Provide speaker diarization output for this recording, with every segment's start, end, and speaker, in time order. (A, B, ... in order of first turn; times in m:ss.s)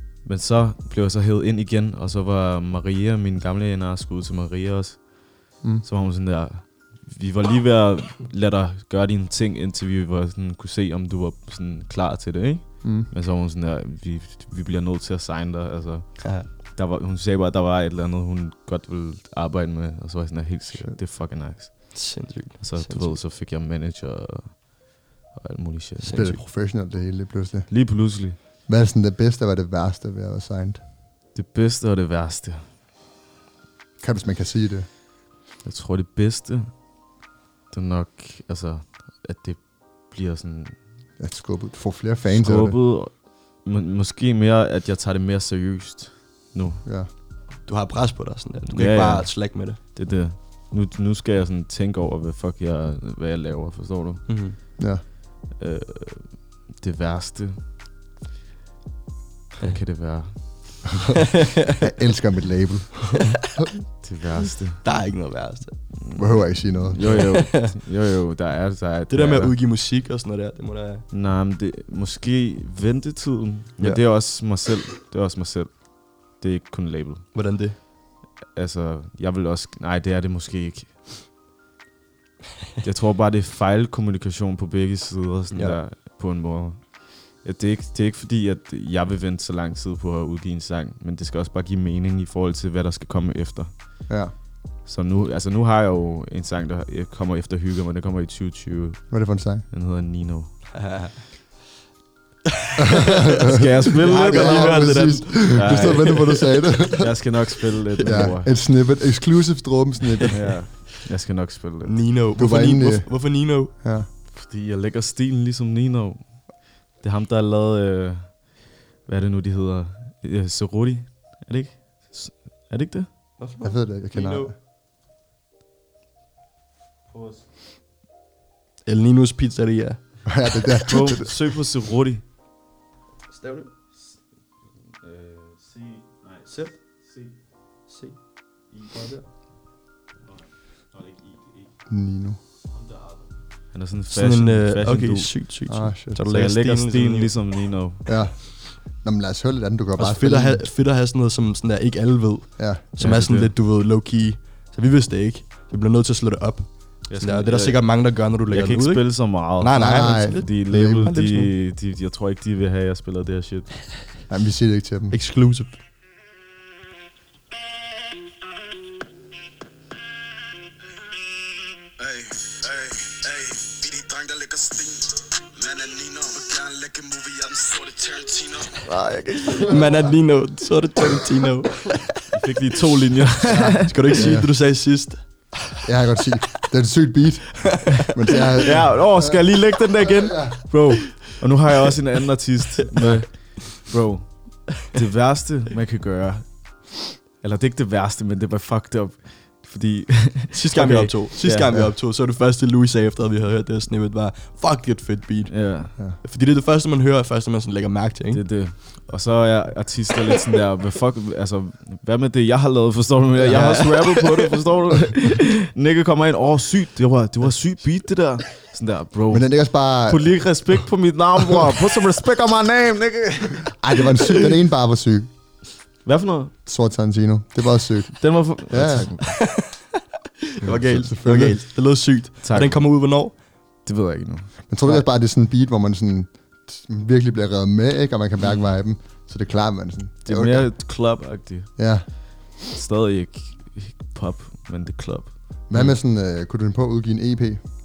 0:00.2-0:26.4 A
0:12.8-0:13.1 B
0:16.2-0:16.5 C
0:21.9-0:23.2 C
0:26.0-0:26.4 C
0:26.1-0:27.8 B
0:27.7-0:28.4 A
0:28.6-0:30.8 B
0:31.3-0:32.6 A
0:34.0-0:34.9 B
0:35.6-0:36.7 A
0:37.7-0:40.8 A
0:41.2-0:42.8 B
0:42.2-0:46.8 A
0:47.6-0:49.8 C
0:48.7-0:54.3 A
0:54.3-0:54.6 C
0:54.8-0:55.0 B
0:55.6-0:57.6 A
0:59.6-1:00.8 A
1:01.8-1:03.6 B
1:04.0-1:04.8 A
1:04.8-1:05.8 C
1:06.0-1:09.5 A
1:06.1-1:07.3 B
1:07.0-1:07.7 C
1:09.1-1:11.0 C
1:11.1-1:17.2 A
1:17.3-1:17.7 C
1:18.5-1:21.0 A
1:22.8-1:33.7 A
1:25.5-1:25.8 C
1:34.8-1:40.6 A
1:39.1-1:39.6 B
1:40.7-1:41.2 C
1:42.8-1:47.4 B
1:43.5-1:46.4 A
1:44.0-1:46.7 C
1:47.0-1:48.5 A
1:48.0-1:50.6 B
1:50.2-1:50.6 C
1:50.3-1:52.0 A
1:51.8-1:53.7 C
1:52.4-1:54.1 B
1:54.3-2:03.1 A
2:03.4-2:04.5 C
2:03.6-2:04.5 B
2:08.8-2:10.3 C
2:10.2-2:11.3 B
2:10.9-2:12.2 A
2:13.3-2:13.7 C
2:15.0-2:16.4 A
2:16.4-2:16.8 C
2:17.9-2:19.2 C
2:20.9-2:21.3 A
2:21.9-2:22.4 B
2:23.7-2:25.4 A
2:24.1-2:27.3 C
2:25.7-2:26.2 B
2:26.2-2:28.0 A
2:28.0-2:30.6 B
2:30.0-2:41.5 C
2:33.0-2:33.5 A
2:37.1-2:43.8 A
2:39.7-2:41.2 B
2:44.3-2:45.2 B
2:45.1-2:45.8 C
2:52.0-2:58.8 D
2:58.8-2:59.9 A
2:59.6-3:02.0 C
3:02.3-3:04.3 A
3:03.5-3:04.5 B
3:03.8-3:05.5 C
3:05.8-3:09.4 B
3:08.6-3:21.7 A
3:10.2-3:10.5 B
3:20.5-3:28.5 C
3:25.5-3:25.9 A
3:28.3-3:43.8 A
3:33.4-3:33.9 B
3:33.4-3:34.5 C
3:39.3-3:40.8 B
3:43.8-3:45.3 B
3:46.0-3:46.5 A
3:46.6-3:49.1 B
3:48.2-3:49.4 A
3:49.4-3:49.8 C
3:50.6-3:53.4 C
3:50.6-3:51.0 A
3:50.7-3:51.6 B
3:52.4-3:54.6 A
3:54.7-4:00.7 B
3:58.4-3:58.7 A
4:00.2-4:06.0 A
4:01.8-4:02.1 B
4:05.7-4:07.6 B